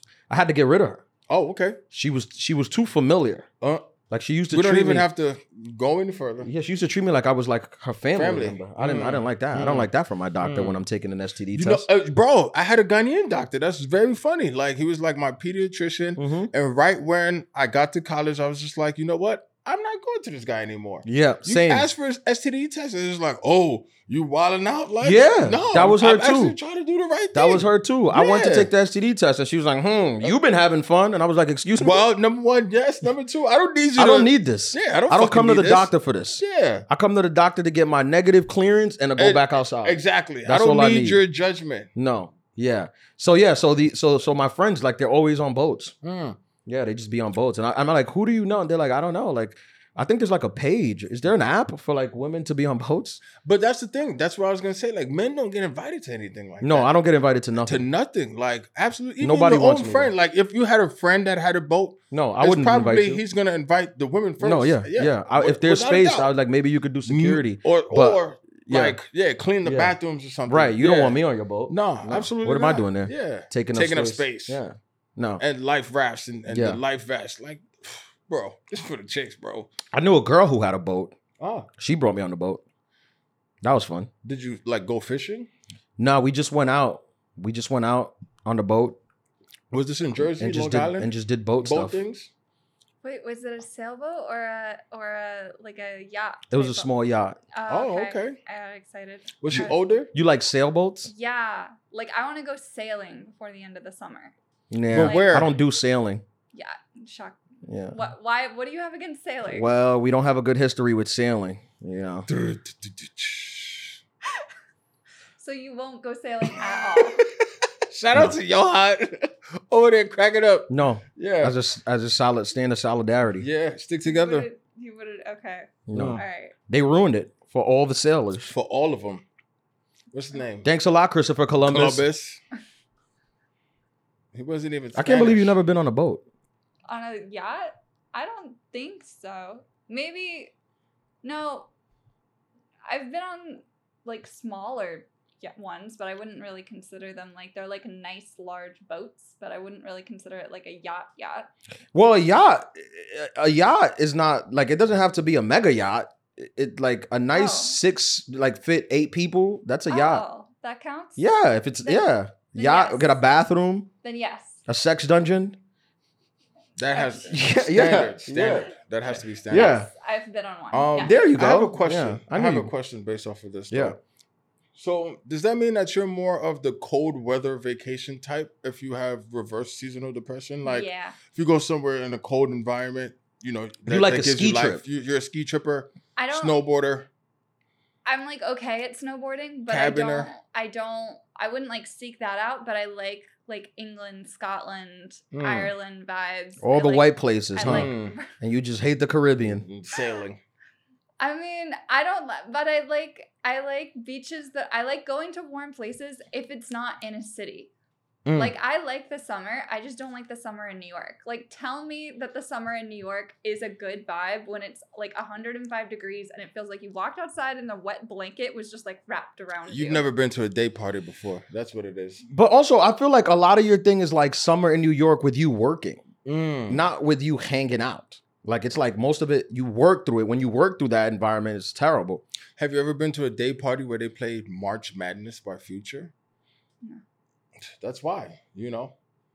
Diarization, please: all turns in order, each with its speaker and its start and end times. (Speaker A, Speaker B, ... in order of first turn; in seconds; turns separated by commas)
Speaker A: 0.3-1.0, Speaker B: 1.3-1.8, Speaker A: 1.9-3.5, Speaker B: 3.6-3.9, Speaker A: 4.1-5.1, Speaker B: 4.5-6.5, Speaker A: 6.4-11.9, Speaker B: 8.2-9.9, Speaker B: 10.4-10.8, Speaker B: 11.5-28.7, Speaker A: 16.2-16.5, Speaker A: 21.1-21.9, Speaker A: 25.0-26.6, Speaker A: 27.3-32.1, Speaker B: 31.8-36.9, Speaker A: 34.0-41.2, Speaker B: 39.2-41.9, Speaker A: 42.0-45.9, Speaker B: 46.0-46.4, Speaker A: 46.7-53.2, Speaker B: 53.4-56.9, Speaker A: 56.6-57.9, Speaker B: 57.6-66.3, Speaker A: 59.2-60.1, Speaker A: 62.1-63.2, Speaker A: 64.4-69.0, Speaker B: 67.0-74.6, Speaker A: 69.6-70.0, Speaker A: 70.5-75.4, Speaker B: 75.4-79.7, Speaker A: 76.5-76.8, Speaker A: 79.9-81.2, Speaker B: 81.4-81.7, Speaker A: 81.8-82.6, Speaker A: 83.6-84.1, Speaker B: 84.2-85.5, Speaker A: 86.0-89.0, Speaker B: 89.7-91.1, Speaker A: 90.2-92.0, Speaker B: 91.6-92.3, Speaker C: 93.0-96.9, Speaker A: 96.5-97.4, Speaker C: 97.5-99.8, Speaker B: 97.7-98.4, Speaker B: 99.4-100.1, Speaker A: 99.5-101.1, Speaker C: 101.0-104.3, Speaker A: 104.7-106.2, Speaker B: 104.9-105.5, Speaker C: 105.0-105.3, Speaker C: 106.5-107.4, Speaker A: 107.6-108.0, Speaker C: 107.9-109.7, Speaker A: 109.5-112.3, Speaker B: 112.3-114.0, Speaker C: 115.4-117.3, Speaker B: 117.0-121.6, Speaker A: 120.7-123.5, Speaker B: 123.4-124.5, Speaker C: 124.1-126.5, Speaker A: 125.9-128.5, Speaker B: 125.9-126.2, Speaker B: 128.4-129.2, Speaker B: 130.1-130.7, Speaker A: 130.6-132.0, Speaker B: 131.6-132.4, Speaker B: 134.3-135.6, Speaker A: 134.9-136.2, Speaker C: 136.9-140.5, Speaker C: 141.2-141.7, Speaker C: 142.9-151.5, Speaker A: 151.9-160.2, Speaker C: 157.3-157.8, Speaker C: 159.9-161.3, Speaker A: 161.2-163.9, Speaker C: 161.8-163.2, Speaker C: 164.0-164.6, Speaker A: 164.7-165.6, Speaker B: 166.8-169.8, Speaker C: 166.9-167.8, Speaker A: 167.2-168.7, Speaker C: 169.1-171.2, Speaker A: 169.5-169.9, Speaker B: 170.7-174.0, Speaker A: 171.0-172.7, Speaker A: 173.7-174.0, Speaker B: 174.8-187.1, Speaker C: 180.6-181.2, Speaker A: 183.9-184.8, Speaker C: 186.2-186.6, Speaker C: 188.1-198.3, Speaker B: 189.7-190.3, Speaker B: 195.3-195.7, Speaker A: 196.6-199.6, Speaker B: 197.6-198.2, Speaker B: 199.4-200.4, Speaker C: 201.2-207.7, Speaker C: 208.3-220.1, Speaker B: 219.7-222.2, Speaker A: 222.2-226.1, Speaker B: 226.2-226.8, Speaker A: 226.7-232.2, Speaker B: 232.6-236.1, Speaker B: 237.7-238.9